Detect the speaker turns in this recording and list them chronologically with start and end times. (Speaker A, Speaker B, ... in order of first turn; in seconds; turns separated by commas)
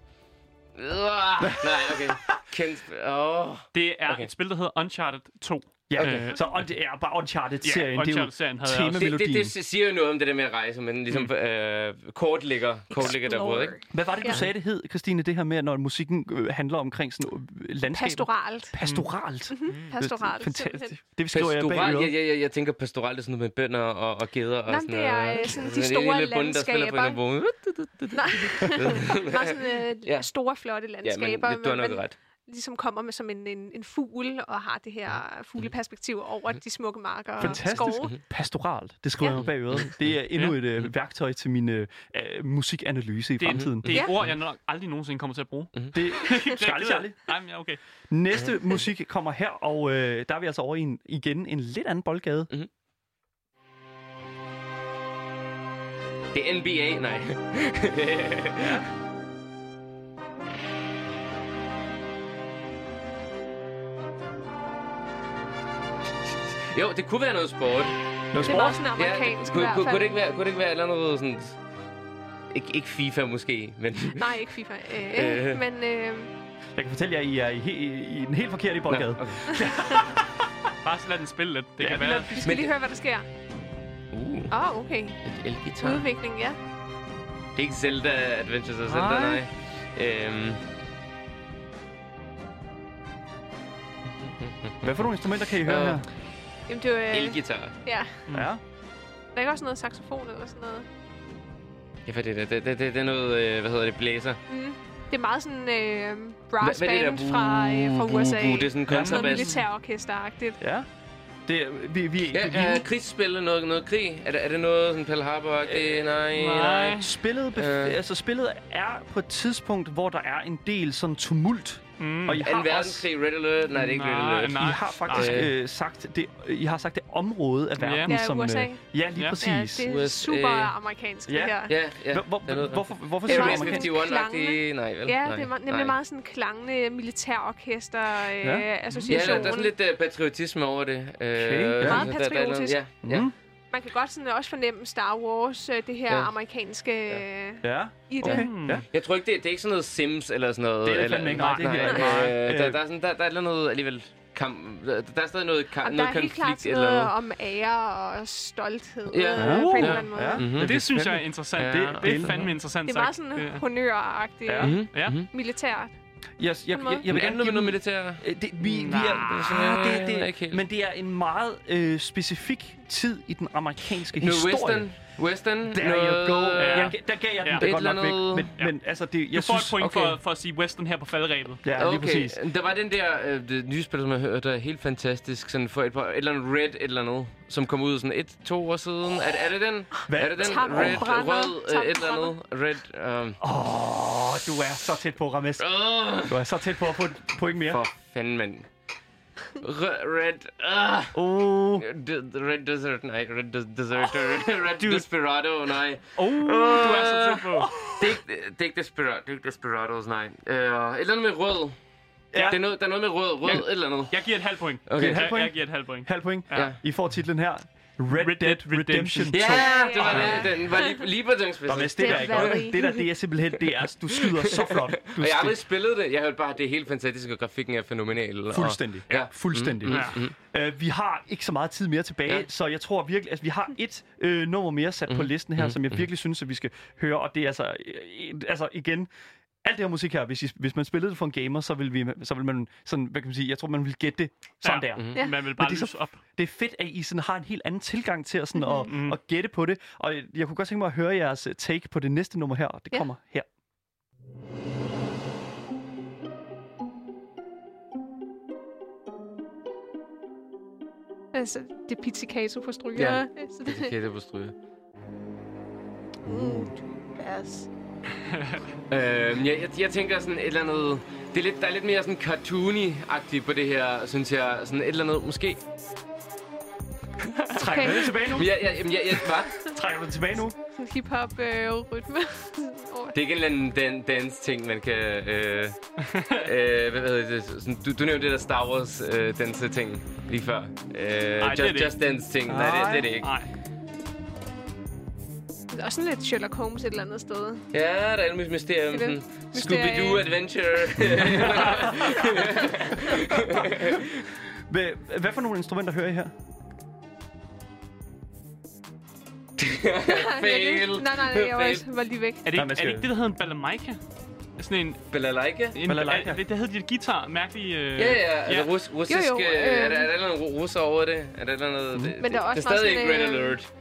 Speaker A: 0.8-4.3, Speaker B: 1.4-2.4, Speaker C: 3.7-6.4, Speaker B: 5.9-9.5, Speaker A: 6.0-6.3, Speaker C: 7.6-9.1, Speaker A: 8.9-13.8, Speaker D: 12.9-14.4, Speaker B: 13.9-22.1, Speaker D: 17.9-18.8, Speaker C: 18.8-19.1, Speaker D: 19.5-20.9, Speaker C: 19.6-19.9, Speaker A: 21.3-30.3, Speaker D: 24.7-27.2, Speaker D: 28.1-38.2, Speaker A: 31.0-32.1, Speaker B: 37.4-44.0, Speaker A: 37.4-38.2, Speaker A: 39.3-40.0, Speaker C: 40.3-40.6, Speaker C: 43.4-47.8, Speaker A: 43.5-44.0, Speaker B: 45.9-47.3, Speaker B: 48.1-52.5, Speaker A: 56.3-58.8, Speaker B: 58.6-58.9, Speaker A: 66.7-71.6, Speaker B: 68.3-68.8, Speaker D: 68.4-70.2, Speaker A: 72.5-74.5, Speaker D: 74.2-76.3, Speaker A: 75.0-75.6, Speaker B: 76.8-80.5, Speaker A: 78.9-79.6, Speaker D: 79.5-79.9, Speaker C: 80.8-82.3, Speaker B: 81.8-82.7, Speaker D: 82.4-83.2, Speaker A: 82.4-82.7, Speaker A: 84.1-84.5, Speaker D: 84.5-85.2, Speaker A: 85.2-86.1, Speaker D: 85.8-86.6, Speaker A: 87.5-90.6, Speaker B: 88.8-89.4, Speaker A: 94.2-95.1, Speaker B: 94.8-96.1, Speaker A: 95.6-96.0, Speaker D: 96.7-98.2, Speaker A: 97.1-97.8, Speaker B: 98.3-98.6, Speaker D: 99.3-100.8, Speaker A: 102.0-104.4, Speaker D: 104.5-110.6, Speaker A: 106.6-109.6, Speaker B: 108.8-109.5, Speaker B: 110.6-110.9, Speaker B: 111.5-112.9, Speaker A: 112.3-118.0, Speaker B: 115.7-116.2, Speaker C: 116.3-117.1, Speaker B: 116.9-123.1, Speaker C: 122.0-122.4, Speaker A: 122.4-125.5, Speaker C: 123.7-125.5, Speaker B: 124.5-129.8, Speaker C: 127.8-128.2, Speaker D: 128.1-128.8, Speaker D: 129.4-131.7, Speaker A: 129.8-130.7, Speaker B: 131.3-133.9, Speaker A: 131.7-136.0, Speaker D: 133.3-139.7, Speaker B: 138.4-139.4, Speaker A: 139.1-143.3, Speaker B: 141.3-142.1, Speaker D: 141.8-142.8, Speaker B: 143.0-143.3, Speaker D: 143.7-148.5, Speaker A: 146.1-146.3, Speaker B: 147.6-148.8, Speaker C: 148.2-148.8, Speaker A: 148.9-157.1, Speaker B: 150.8-152.8, Speaker C: 151.3-152.4, Speaker D: 155.8-160.4, Speaker A: 159.1-162.5, Speaker B: 159.3-162.5, Speaker C: 159.5-160.0, Speaker C: 160.5-163.6, Speaker D: 162.8-165.9, Speaker B: 164.4-164.8, Speaker A: 164.6-165.3, Speaker C: 164.9-165.2, Speaker B: 166.4-174.9, Speaker D: 166.7-167.1, Speaker A: 167.1-168.2, Speaker C: 168.6-169.3, Speaker A: 168.9-170.6, Speaker A: 174.2-178.5, Speaker B: 175.7-179.9, Speaker C: 176.6-177.7, Speaker C: 179.3-181.6, Speaker A: 179.8-180.2, Speaker B: 181.6-182.4, Speaker A: 181.8-193.4, Speaker B: 190.1-191.1, Speaker D: 190.3-192.3, Speaker B: 193.4-195.7, Speaker A: 195.6-196.5, Speaker B: 196.2-197.8, Speaker A: 197.6-198.7, Speaker A: 199.6-201.2, Speaker B: 201.1-201.8, Speaker A: 201.8-211.8, Speaker C: 204.8-205.0, Speaker C: 206.2-207.7, Speaker B: 207.6-208.2, Speaker B: 212.3-212.6, Speaker A: 212.3-214.2, Speaker C: 213.5-216.8, Speaker A: 214.9-215.3, Speaker B: 214.9-220.5, Speaker A: 216.5-216.8, Speaker C: 218.1-219.5, Speaker A: 219.3-222.7, Speaker D: 219.4-221.0, Speaker C: 220.1-220.4, Speaker B: 221.7-225.6, Speaker D: 222.0-223.1, Speaker A: 224.1-230.3, Speaker B: 228.5-239.1, Speaker C: 229.9-230.2, Speaker A: 235.1-236.0, Speaker B: 239.6-253.5, Speaker C: 244.6-246.2, Speaker D: 248.6-248.9, Speaker C: 248.9-249.2, Speaker D: 261.3-263.9, Speaker A: 263.0-264.5, Speaker D: 266.2-267.7, Speaker B: 266.3-266.7, Speaker C: 268.3-268.6, Speaker A: 268.9-275.6, Speaker B: 277.5-278.8, Speaker D: 277.6-278.4, Speaker A: 278.0-279.6, Speaker B: 279.6-280.6, Speaker D: 280.8-283.1, Speaker A: 283.1-285.8, Speaker C: 286.0-286.5, Speaker A: 286.3-293.3, Speaker C: 291.4-292.0, Speaker B: 292.5-293.1, Speaker C: 293.2-293.5, Speaker D: 295.7-297.6, Speaker A: 297.7-304.2, Speaker D: 298.9-300.2, Speaker B: 301.2-302.1, Speaker B: 303.1-304.1, Speaker B: 304.7-306.3, Speaker A: 309.6-311.8, Speaker D: 310.1-312.5, Speaker C: 312.4-314.0, Speaker B: 312.5-313.1, Speaker C: 314.6-315.0, Speaker A: 315.1-315.8, Speaker C: 315.7-318.7, Speaker B: 315.8-316.4, Speaker A: 318.0-323.7, Speaker D: 319.1-320.1, Speaker D: 322.2-323.6